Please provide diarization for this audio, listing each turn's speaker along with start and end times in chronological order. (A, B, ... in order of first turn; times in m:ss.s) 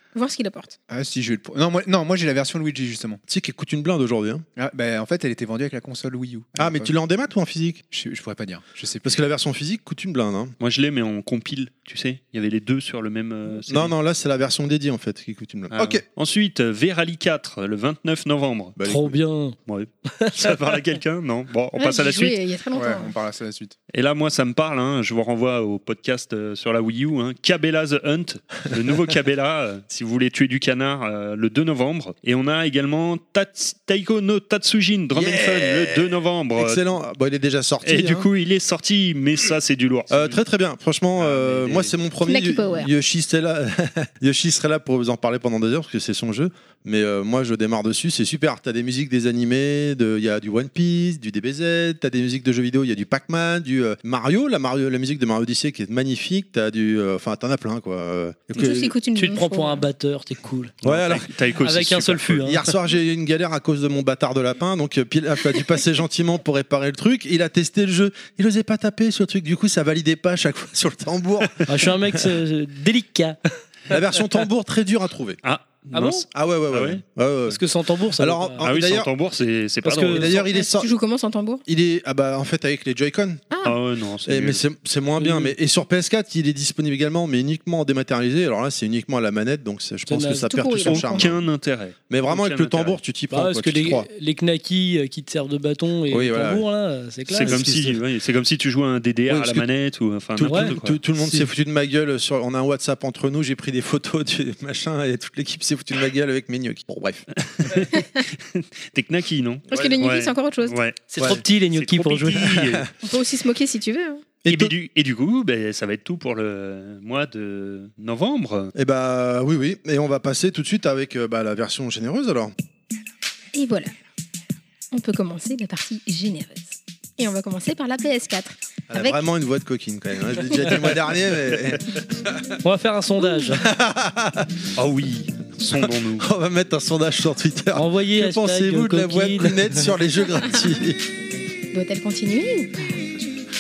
0:00.1-0:00.8 A
0:00.9-0:03.2 B
0:03.3-0:04.4 C
0:04.6-0:06.9 B
0:06.6-0:07.8 C
0:07.9-0:09.2 B
0:09.0-0:10.5 C
0:10.6-0:13.9 D
0:13.7-0:16.0 C
0:15.7-0:18.8 D
0:18.8-0:19.2 C
0:18.8-0:19.6 E
0:19.7-0:22.4 D
0:20.1-0:20.6 E
0:21.8-0:23.1 A
0:22.7-0:23.8 B
0:23.9-0:36.8 D
0:35.1-0:38.3 C
0:37.8-0:40.4 D
0:40.1-0:59.0 C
0:41.2-0:41.9 D
0:42.3-0:42.9 A
0:58.5-0:59.8 A
0:59.2-1:00.8 E
1:00.8-1:01.3 C
1:00.8-1:02.5 D
1:01.6-1:02.6 E
1:02.5-1:11.7 C
1:11.7-1:13.4 E
1:13.9-1:15.4 C
1:15.4-1:17.0 D
1:15.9-1:16.2 E
1:16.3-1:17.6 C
1:17.5-1:18.6 E
1:18.1-1:19.1 C
1:18.6-1:20.4 D
1:19.8-1:20.3 E
1:20.0-1:20.9 C
1:20.3-1:21.6 A
1:21.7-1:23.4 C
1:23.6-1:24.6 D
1:24.3-1:31.4 C
1:25.2-1:25.5 E
1:30.1-1:30.5 E
1:30.5-1:31.3 A
1:30.8-1:33.0 D
1:32.1-1:34.1 C
1:33.3-1:37.6 E
1:36.1-1:36.6 C
1:37.3-1:41.0 D
1:37.4-1:38.0 C
1:39.3-1:39.6 C
1:40.4-1:47.2 C
1:40.4-1:41.5 E
1:47.4-1:51.1 D
1:49.7-1:50.8 A
1:49.7-1:50.0 C
1:51.1-1:52.5 E
1:51.2-1:51.4 C
1:51.7-1:52.9 D
1:52.4-1:52.9 C
1:53.0-1:54.3 A
1:54.4-1:54.7 C
1:54.5-1:58.7 D
1:58.8-2:02.5 C
2:03.5-2:03.9 A
2:04.9-2:09.2 A
2:08.9-2:12.5 C
2:12.6-2:13.7 E
2:13.5-2:14.5 C
2:14.8-2:16.3 D
2:15.8-2:21.0 C
2:17.8-2:19.7 E
2:21.7-2:23.4 A